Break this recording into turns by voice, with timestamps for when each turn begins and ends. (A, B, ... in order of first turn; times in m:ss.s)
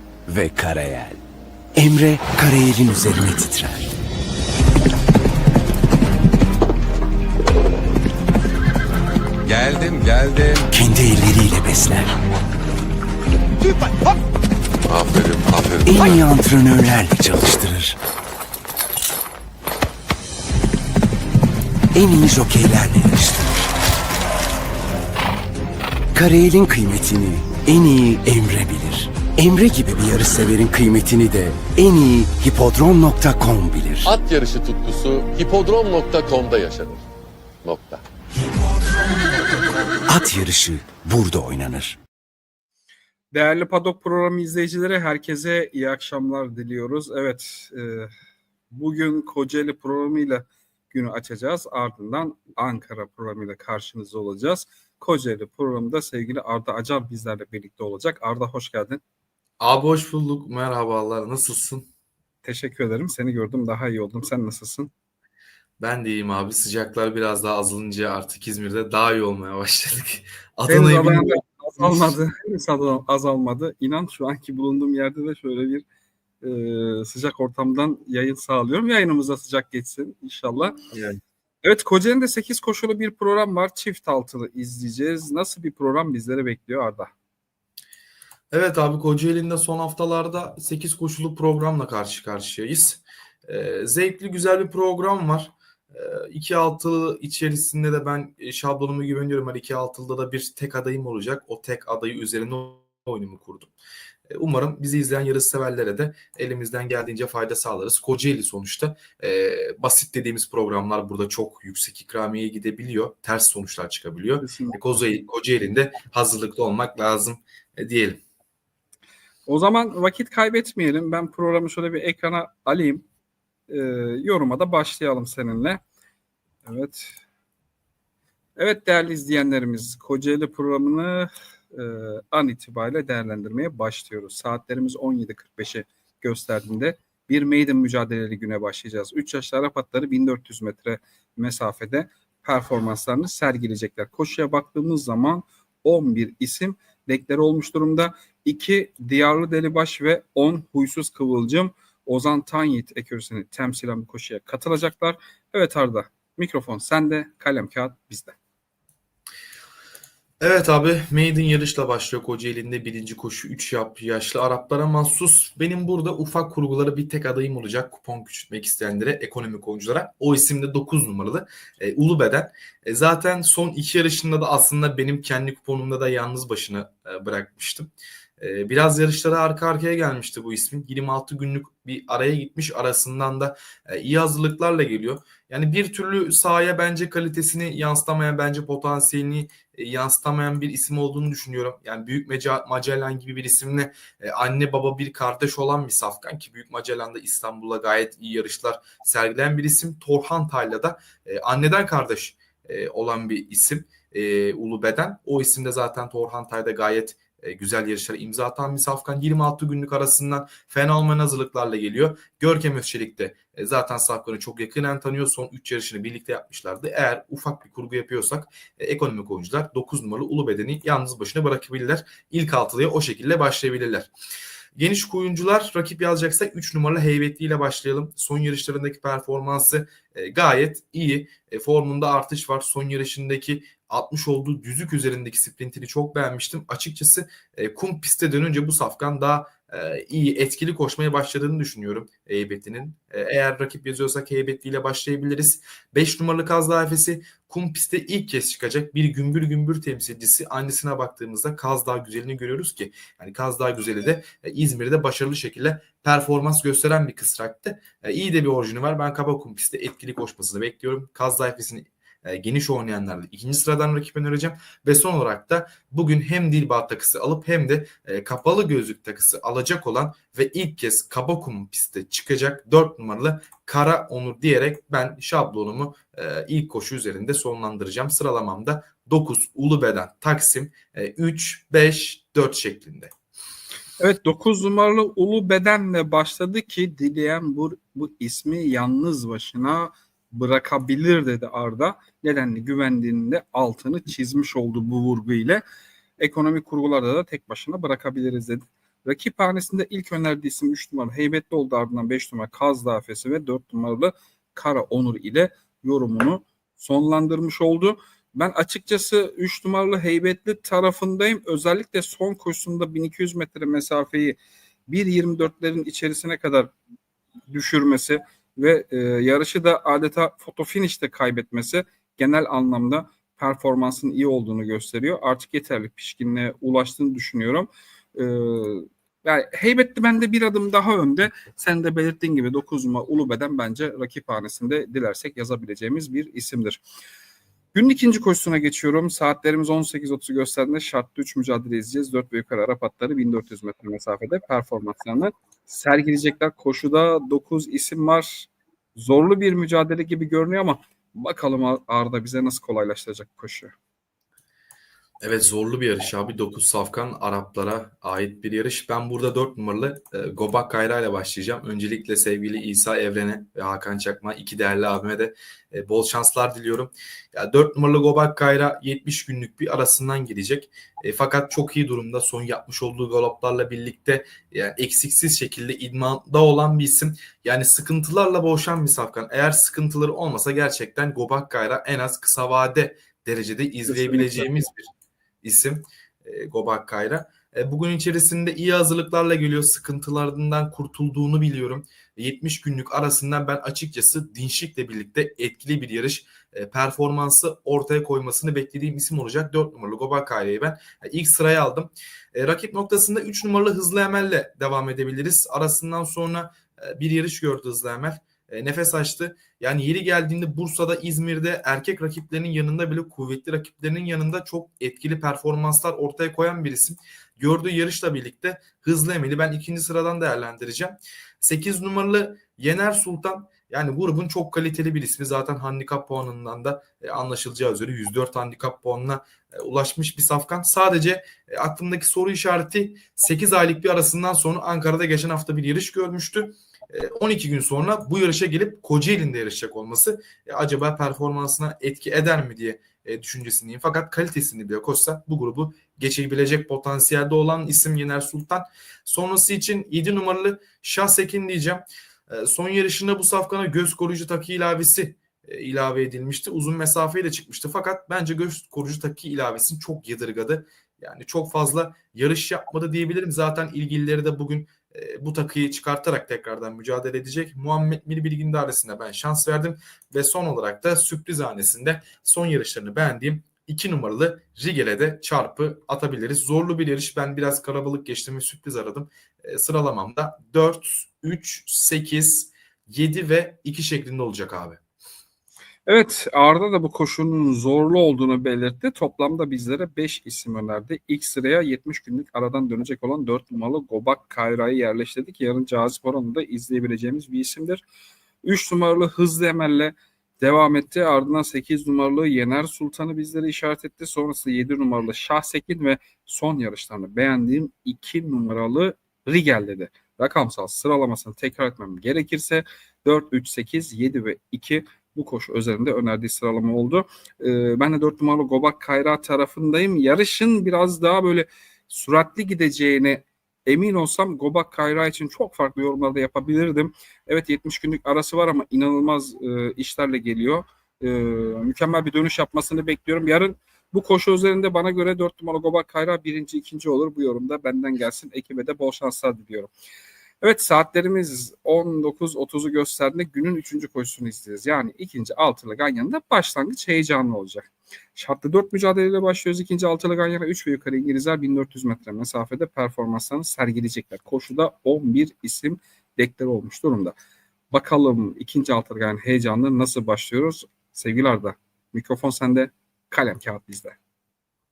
0:00.3-0:01.2 A
0:01.8-0:03.9 A
0:09.4-0:10.7 B
0:10.7-0:12.2 A
0:14.9-0:16.2 B
0:15.9-0:18.0 A
0:21.9-0:23.7 A
0:26.1-0:34.1 A
0:34.0-0:37.1 B
0:37.6-0:38.0 B
0:40.1-0:42.0 A
0:43.3-0:48.1 C
0:48.7-0:59.0 C
0:59.6-1:01.9 D
1:02.4-1:04.9 C
1:05.8-1:12.2 D
1:10.7-1:15.8 C
1:16.4-1:20.8 C
1:20.9-1:21.2 D
1:21.6-1:27.1 C
1:28.5-1:43.7 D
1:44.3-1:58.2 D
1:54.4-1:54.8 C
1:59.5-2:03.0 C
2:03.7-2:05.8 C
2:06.6-2:07.2 C
2:08.6-2:38.4 C
2:40.4-2:57.9 D
2:58.4-3:44.1 D
3:44.8-4:43.1 D
4:44.0-4:55.6 C
4:56.2-5:16.7 C
5:17.5-5:36.8 C
5:37.7-5:53.7 C
5:55.2-6:24.9 D
6:23.9-6:24.5 C
6:25.4-8:04.8 D
8:05.9-8:17.8 C
8:18.4-8:59.7 C
9:00.4-9:17.2 C
9:17.7-9:24.0 C